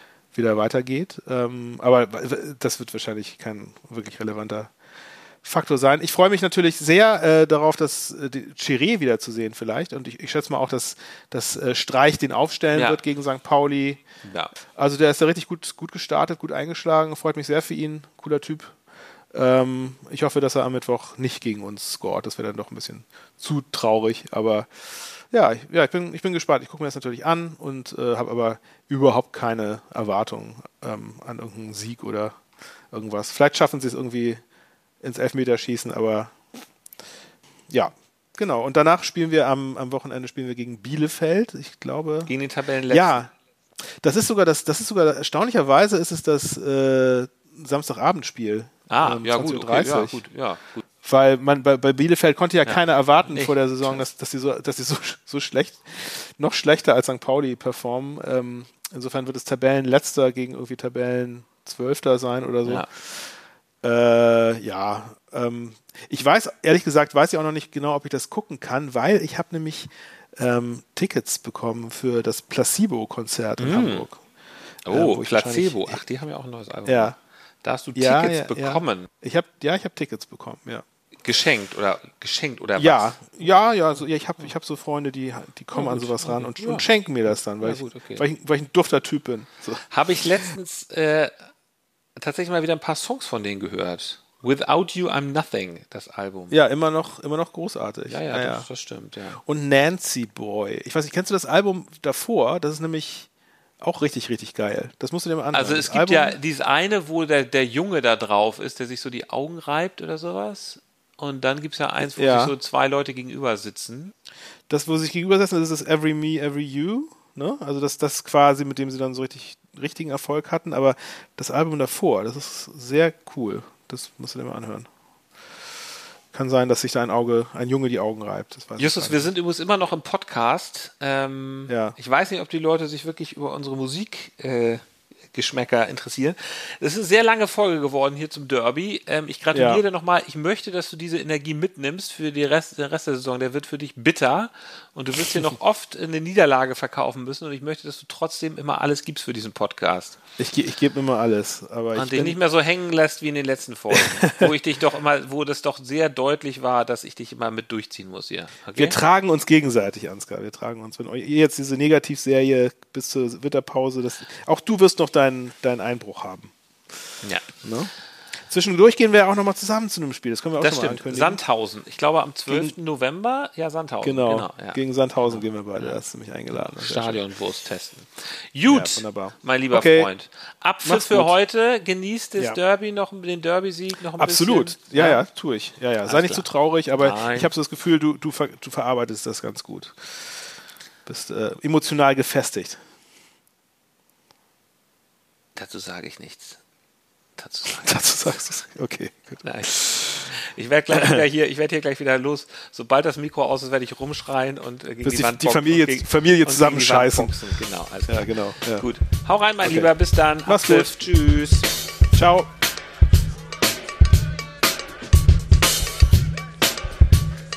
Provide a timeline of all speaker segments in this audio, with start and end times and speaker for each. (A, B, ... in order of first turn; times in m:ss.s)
0:00.3-0:04.7 A
0:05.4-0:14.0 A
0:12.7-0:13.0 B
0:14.2-0:14.5 B
0:14.7-0:18.8 A
0:19.3-0:32.4 A
0:32.9-0:34.4 A
0:35.0-0:36.4 A
0:37.7-0:42.3 A
0:42.2-0:43.2 B
0:42.9-0:43.3 A
0:44.0-0:50.2 A
0:48.9-0:50.8 B
0:51.0-1:03.2 A
0:52.6-0:54.1 B
1:03.8-1:14.2 A
1:13.6-1:14.1 B
1:14.8-1:19.1 B
1:14.9-1:16.0 A
1:16.8-1:17.2 A
1:17.9-1:20.8 A
1:21.2-1:23.5 B
1:22.8-1:29.8 A
1:25.7-1:28.2 B
1:29.9-1:31.3 B
1:32.2-1:36.6 B
1:36.5-1:38.7 A
1:38.1-1:39.4 B
1:39.4-1:43.3 A
1:43.8-1:46.4 A
1:45.5-1:54.1 B
1:52.0-1:52.5 A
1:54.7-2:04.9 A
2:06.3-2:09.3 A
2:08.8-2:14.8 B
2:11.7-2:12.0 A
2:15.3-2:30.2 B
2:19.5-2:19.8 A
2:30.4-2:32.4 A
2:31.9-2:39.0 B
2:33.9-2:34.5 A
2:38.7-2:46.5 A
2:47.2-2:47.5 B
2:47.6-2:47.9 A
2:48.5-2:51.4 A
2:50.6-2:56.0 B
2:52.5-2:52.7 A
2:54.0-2:57.2 A
2:56.5-3:05.2 B
2:58.7-3:00.1 A
3:00.8-3:01.3 A
3:04.2-3:10.3 A
3:06.0-3:07.5 B
3:11.0-3:12.8 A
3:15.6-3:16.6 B
3:17.4-3:18.3 B
3:17.7-3:20.3 A
3:19.4-3:31.7 B
3:20.9-3:21.2 A
3:25.0-3:28.8 A
3:29.6-3:31.0 A
3:32.1-3:32.5 A